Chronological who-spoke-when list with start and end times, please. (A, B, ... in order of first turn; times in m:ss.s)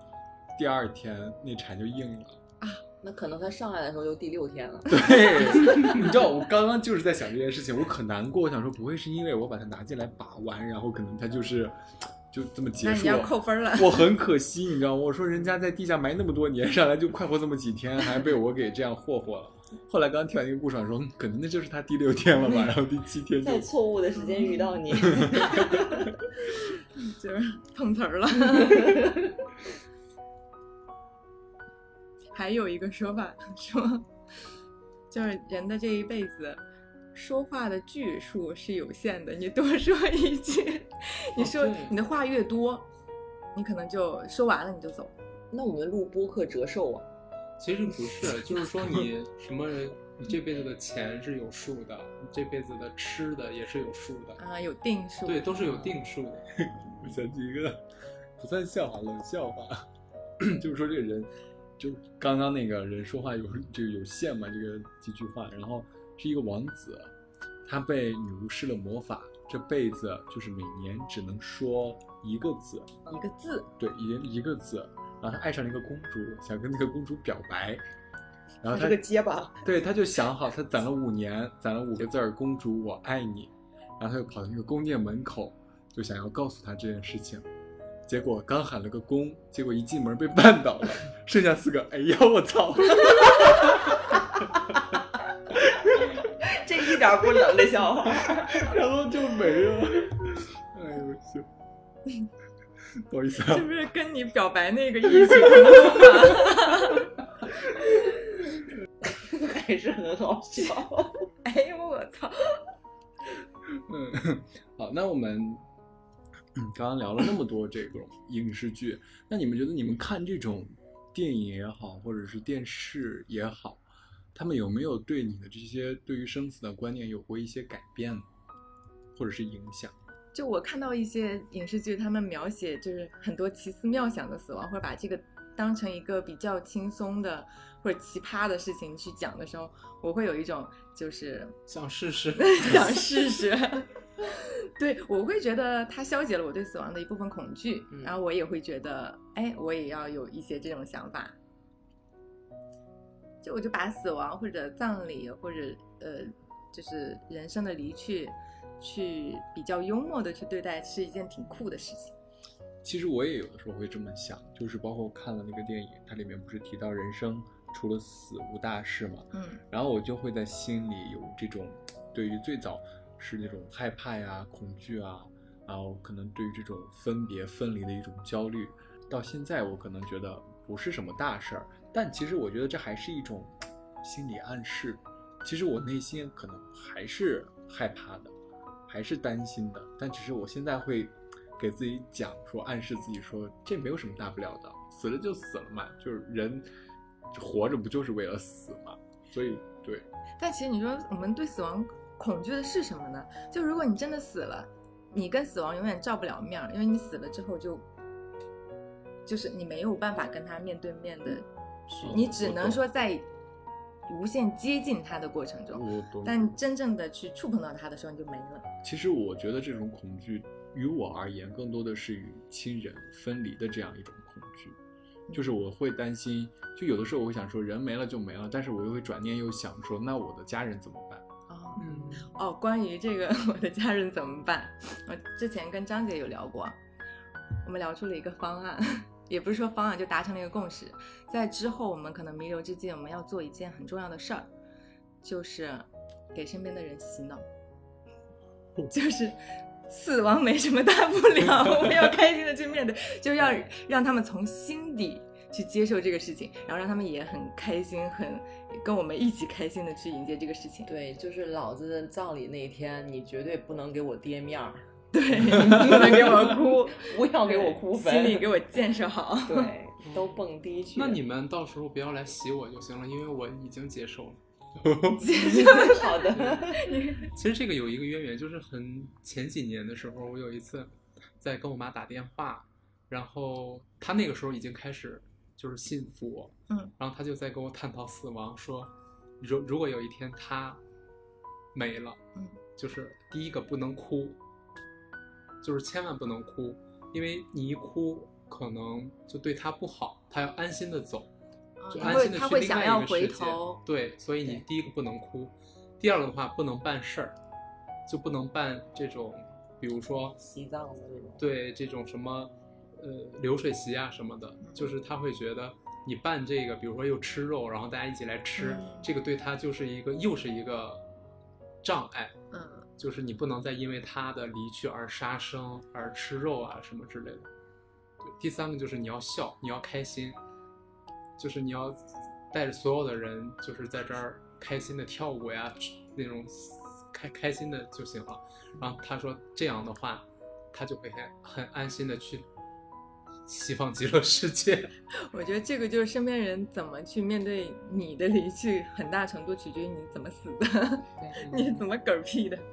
0:00.5-0:02.4 A
0:03.0-0:06.0 B
0:04.9-0:23.7 A
0:12.8-0:14.1 C
0:23.4-0:26.2 B
0:24.3-0:24.7 C
0:24.9-0:26.0 A
0:27.0-0:29.1 C
0:32.3-0:34.1 C
0:35.1-0:36.6 C
0:37.1-0:42.9 C
0:41.4-0:41.9 D
0:43.5-0:45.1 C
0:45.5-0:47.1 B
0:47.6-0:54.4 D
0:54.4-0:55.8 C
0:55.2-0:57.0 D
0:56.5-0:57.8 A
0:58.4-1:07.1 A
1:07.6-1:13.0 A
1:13.1-1:13.7 C
1:13.8-1:17.8 A
1:18.6-1:19.0 A
1:18.6-1:19.7 B
1:19.6-1:27.5 A
1:28.1-1:34.8 A
1:35.5-1:36.2 A
1:36.2-1:38.7 B
1:38.1-1:41.5 A
1:42.9-1:43.7 A
1:43.4-1:47.1 C
1:49.0-1:51.3 B
1:51.4-1:52.6 C
1:53.7-1:55.6 A
1:56.5-2:03.8 A
2:04.3-2:08.3 A
2:09.1-2:10.0 A
2:10.3-2:21.6 C
2:21.7-2:23.2 D
2:22.4-2:31.4 C
2:33.4-2:42.1 C
2:42.8-3:08.3 A
2:49.3-2:49.6 C
3:08.9-3:16.7 A
3:17.3-3:20.1 A
3:20.4-3:27.8 C
3:29.2-3:33.2 C
3:32.0-3:32.8 A
3:34.1-3:38.7 C
3:35.7-3:36.6 A
3:38.8-3:44.8 A
3:45.3-3:45.6 C
3:45.3-3:51.2 A
3:51.5-3:56.8 C
3:51.8-3:52.3 D
3:57.6-4:04.5 C
4:05.2-4:07.4 C
4:08.9-4:09.4 C
4:09.9-4:20.9 C
4:20.8-4:24.8 B
4:25.1-4:29.7 C
4:25.6-4:28.5 B
4:29.4-4:31.2 B
4:30.0-4:30.4 D
4:30.9-4:34.4 D
4:34.8-4:35.2 A
4:35.2-4:36.3 C
4:35.3-4:36.8 B
4:36.3-4:36.6 D
4:36.8-4:37.3 C
4:37.3-4:50.8 D
4:51.7-4:52.2 D
4:52.8-4:54.4 D
4:55.6-5:01.3 D
5:01.8-5:03.8 C
5:01.9-5:02.3 B
5:02.0-5:07.4 D
5:08.1-5:10.4 D
5:10.4-5:11.4 B
5:11.4-5:21.0 D
5:14.6-5:14.9 C
5:18.6-5:19.1 C
5:21.8-5:22.4 D
5:22.5-5:22.9 C
5:23.0-5:27.5 D
5:28.2-5:30.4 D
5:31.4-5:42.4 D
5:43.5-5:44.9 D
5:45.2-5:52.6 C
5:51.2-5:51.8 B